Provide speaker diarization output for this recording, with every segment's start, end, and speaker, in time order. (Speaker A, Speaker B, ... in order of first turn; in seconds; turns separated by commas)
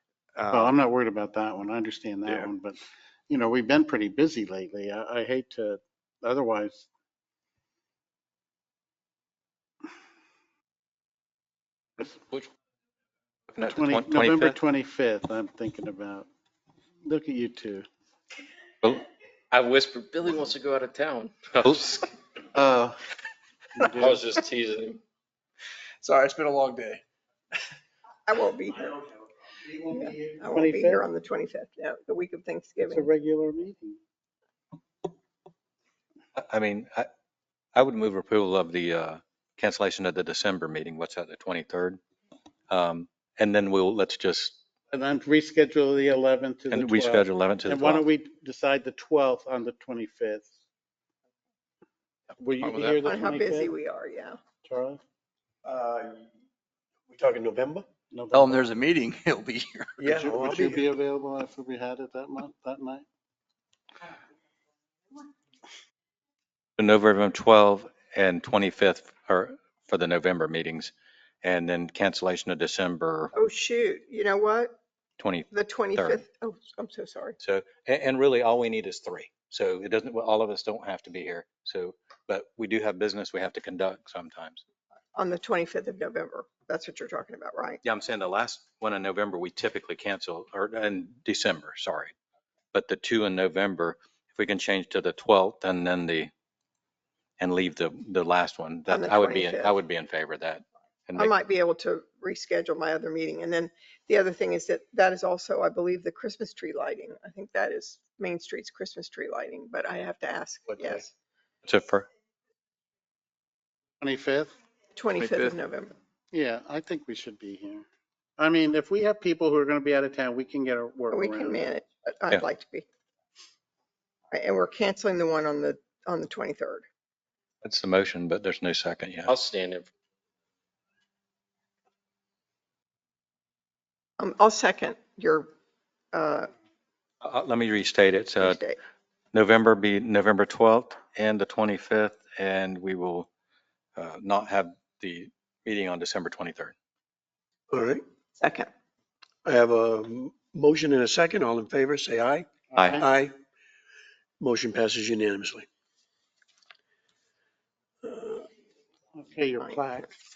Speaker A: 0.4-0.7, Speaker B: 0.5-6.9, Speaker B: 13.6-16.3, Speaker A: 13.7-14.5, Speaker B: 17.0-17.9, Speaker C: 19.5-22.0, Speaker D: 21.6-22.0, Speaker C: 22.5-23.0, Speaker B: 23.8-24.3, Speaker C: 24.0-25.0, Speaker A: 26.0-27.0, Speaker E: 28.3-29.0, Speaker B: 29.6-31.1, Speaker E: 29.9-33.1, Speaker B: 32.8-34.0, Speaker D: 36.4-37.1, Speaker D: 37.8-42.0, Speaker D: 42.7-44.6, Speaker B: 44.9-50.5, Speaker D: 46.7-48.0, Speaker B: 52.4-53.7, Speaker A: 52.6-53.0, Speaker E: 53.0-54.4, Speaker B: 54.6-55.0, Speaker F: 55.6-56.3, Speaker F: 57.1-57.9, Speaker B: 58.1-58.6, Speaker A: 58.3-60.0, Speaker F: 60.0-60.9, Speaker B: 60.1-63.0, Speaker D: 66.8-73.3, Speaker E: 73.3-74.8, Speaker D: 75.2-76.2, Speaker E: 75.5-77.4, Speaker D: 77.4-84.6, Speaker E: 85.1-87.8, Speaker D: 87.8-92.1, Speaker D: 92.7-96.3, Speaker D: 97.4-101.3, Speaker E: 98.9-99.7, Speaker E: 101.2-111.1, Speaker D: 111.7-112.1, Speaker B: 114.0-114.6, Speaker E: 115.0-115.9, Speaker A: 115.2-115.5, Speaker B: 116.3-117.9, Speaker B: 118.4-121.7, Speaker E: 121.1-122.9, Speaker E: 124.3-126.9, Speaker D: 127.6-129.3, Speaker C: 129.3-129.9, Speaker E: 134.2-135.5, Speaker E: 136.1-136.5, Speaker D: 137.2-138.6, Speaker E: 138.4-138.8, Speaker D: 139.3-143.3, Speaker D: 144.0-146.7, Speaker F: 147.7-148.0, Speaker E: 148.4-148.7, Speaker F: 149.4-153.3, Speaker B: 152.7-153.1, Speaker F: 154.4-155.7, Speaker F: 158.1-158.4, Speaker B: 159.2-160.1